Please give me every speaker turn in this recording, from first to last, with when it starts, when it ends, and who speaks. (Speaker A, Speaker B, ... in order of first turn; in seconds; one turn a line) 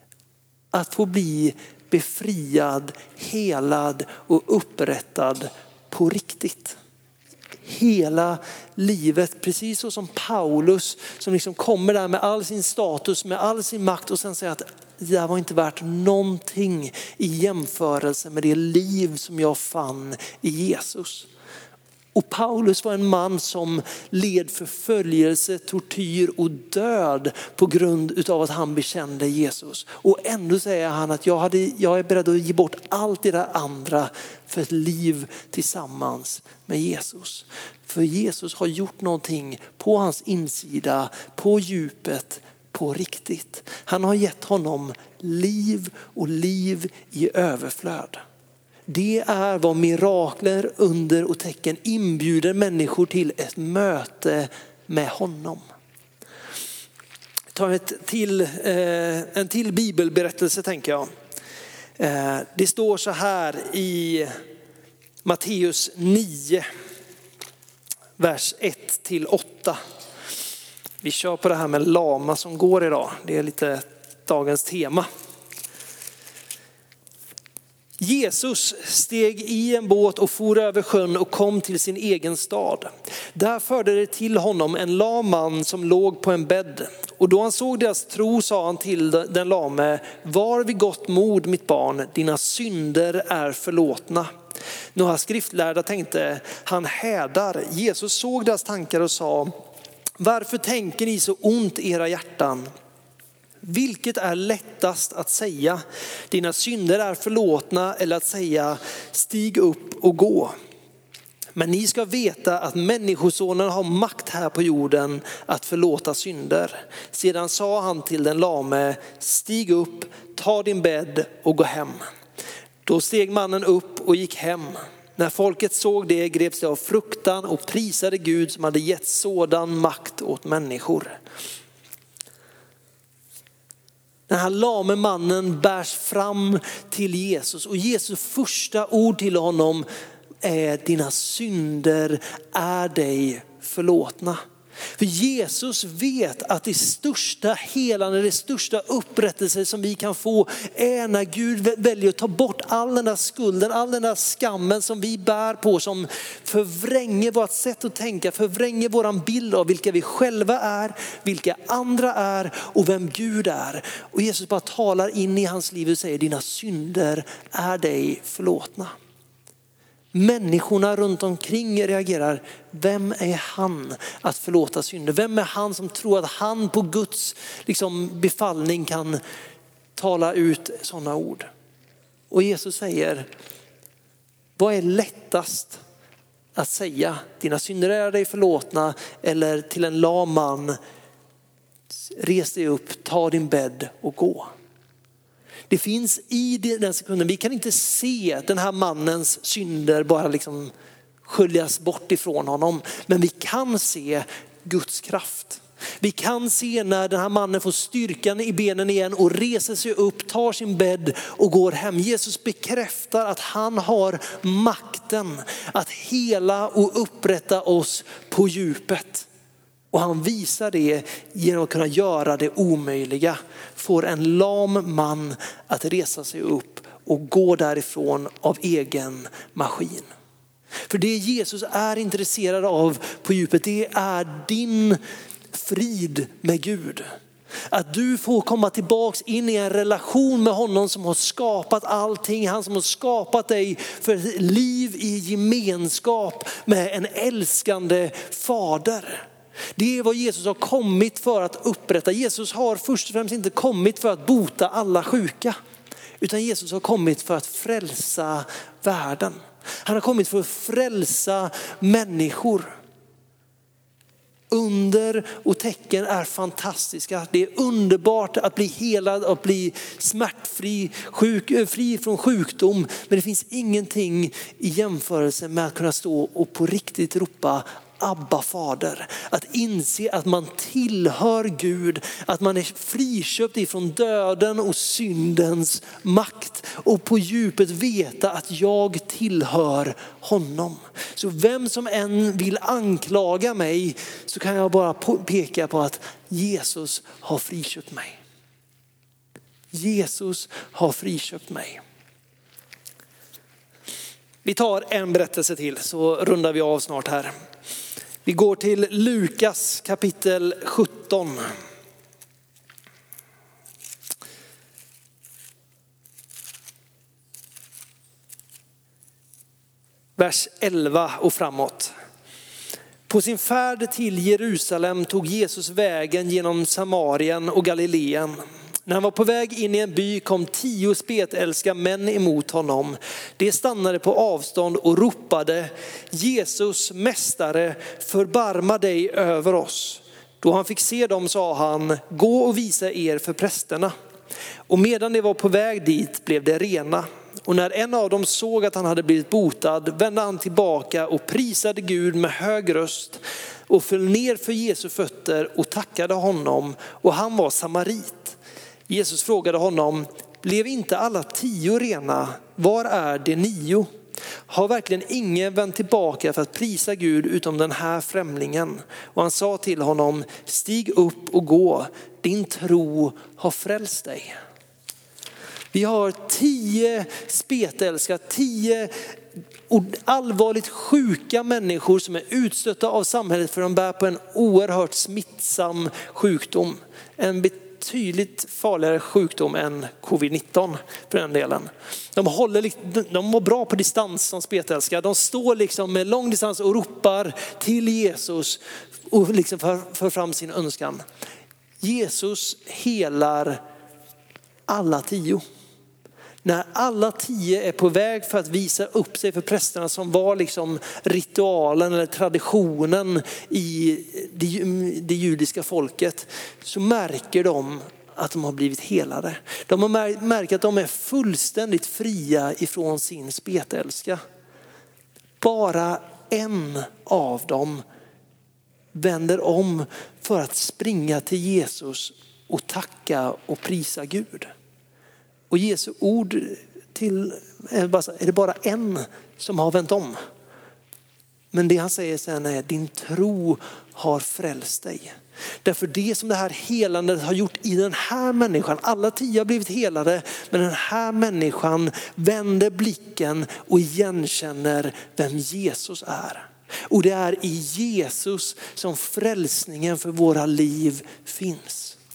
Speaker A: 0.7-6.8
Speaker A: 7.6-21.3
Speaker A: 22.1-48.2
Speaker A: 48.9-55.6
Speaker A: 57.5-61.1
Speaker A: 62.0-64.3
Speaker A: 65.2-66.7
Speaker A: 68.2-69.8
Speaker A: 71.0-75.1
Speaker A: 78.0-94.3
Speaker A: 95.0-99.5
Speaker A: 100.2-102.7
Speaker A: 103.6-110.5
Speaker A: 111.6-122.0
Speaker A: 122.9-131.1
Speaker A: 134.3-139.9
Speaker A: 140.4-144.4
Speaker A: 145.0-168.9
Speaker A: 170.1-179.2
Speaker A: 180.0-181.5
Speaker A: 182.3-183.3
Speaker A: 184.6-185.8
Speaker A: 186.6-190.8
Speaker A: 192.1-194.5
Speaker A: 195.7-200.7
Speaker A: 201.2-219.3
Speaker A: 219.9-230.1
Speaker A: 230.9-235.0
Speaker A: 235.5-237.1
Speaker A: 237.7-255.6
Speaker A: 256.2-262.7
Speaker A: 264.5-298.2
Speaker A: 299.7-301.8
Speaker A: 304.4-307.3
Speaker A: 308.2-311.5
Speaker A: 320.2-321.9
Speaker A: 323.1-343.9
Speaker A: 344.7-358.4
Speaker A: 358.9-363.9
Speaker A: 364.5-374.4
Speaker A: 375.7-378.9
Speaker A: 379.7-398.6
Speaker A: 399.1-401.0
Speaker A: 401.8-403.6
Speaker A: 404.7-405.4
Speaker A: 406.4-424.2
Speaker A: 425.4-427.8
Speaker A: 428.9-434.5
Speaker A: 435.5-440.2
Speaker A: 441.5-462.0